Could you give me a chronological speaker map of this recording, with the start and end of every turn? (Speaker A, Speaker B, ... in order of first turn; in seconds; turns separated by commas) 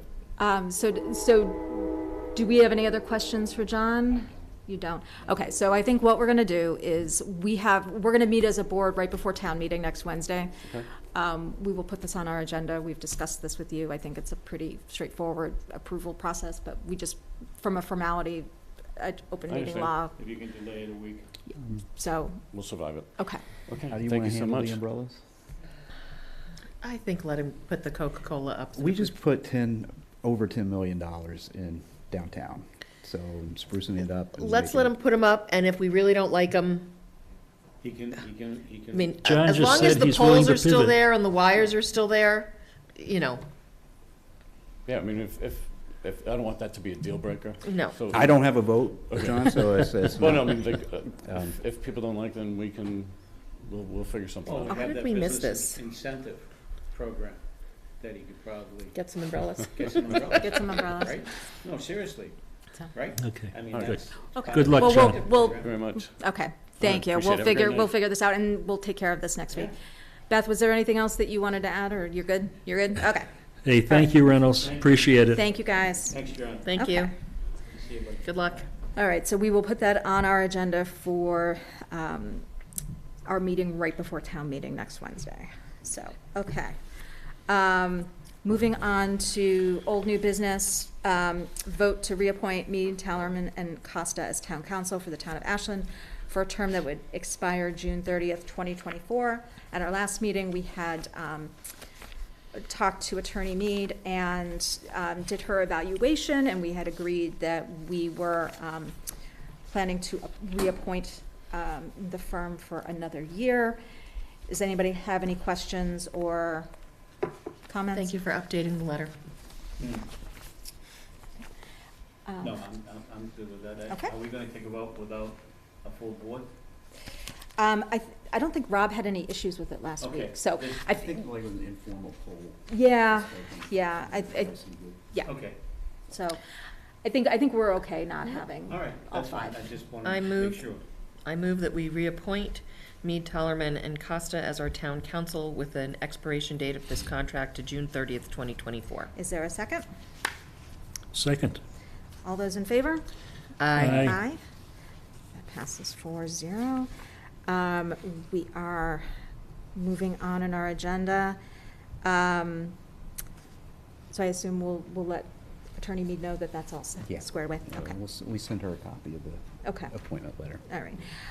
Speaker A: 0.4-10.6, Speaker A: 11.1-20.2, Speaker B: 19.5-20.0, Speaker C: 20.2-21.3, Speaker A: 21.8-22.6, Speaker B: 22.5-24.8, Speaker A: 23.2-23.4, Speaker D: 23.9-25.2, Speaker E: 26.8-29.1, Speaker D: 28.8-34.9, Speaker E: 34.4-37.0, Speaker C: 37.8-40.2, Speaker E: 38.9-43.4, Speaker F: 39.2-41.0, Speaker B: 44.9-54.9, Speaker E: 47.6-48.0, Speaker D: 48.1-51.5, Speaker C: 54.5-57.4, Speaker E: 54.7-55.8, Speaker C: 58.0-59.0, Speaker E: 58.9-60.5, Speaker C: 59.8-65.8, Speaker A: 60.4-61.2, Speaker F: 63.2-65.2, Speaker A: 64.3-69.7, Speaker B: 64.9-66.1, Speaker B: 66.8-67.9, Speaker A: 70.3-73.3, Speaker F: 73.6-75.4, Speaker A: 73.8-74.7, Speaker C: 74.5-75.3, Speaker A: 75.3-76.2, Speaker C: 76.1-76.7, Speaker E: 76.7-77.1, Speaker A: 76.7-77.1, Speaker C: 77.6-78.3, Speaker E: 78.2-78.7, Speaker A: 79.0-82.5, Speaker A: 83.3-86.8, Speaker A: 87.5-101.5, Speaker A: 102.5-109.0, Speaker A: 109.7-113.8, Speaker A: 114.5-116.7, Speaker A: 117.7-118.2, Speaker E: 117.9-119.1, Speaker C: 119.8-120.1, Speaker A: 122.2-122.6, Speaker C: 122.4-126.5, Speaker A: 127.6-131.2, Speaker C: 130.0-130.9, Speaker D: 130.9-135.0, Speaker A: 132.7-134.6, Speaker C: 135.2-135.6, Speaker A: 136.1-136.4, Speaker A: 137.0-139.6, Speaker C: 138.7-140.8, Speaker E: 140.0-140.6, Speaker E: 141.2-149.1, Speaker A: 149.2-149.8, Speaker F: 151.1-151.6, Speaker A: 152.2-153.1, Speaker E: 153.6-154.2, Speaker F: 153.8-154.2, Speaker A: 153.9-154.4, Speaker A: 155.3-156.9, Speaker A: 157.5-159.1, Speaker A: 159.8-161.4, Speaker A: 162.0-162.8, Speaker A: 164.1-168.0, Speaker D: 167.1-170.6, Speaker A: 169.6-169.9, Speaker A: 170.7-171.1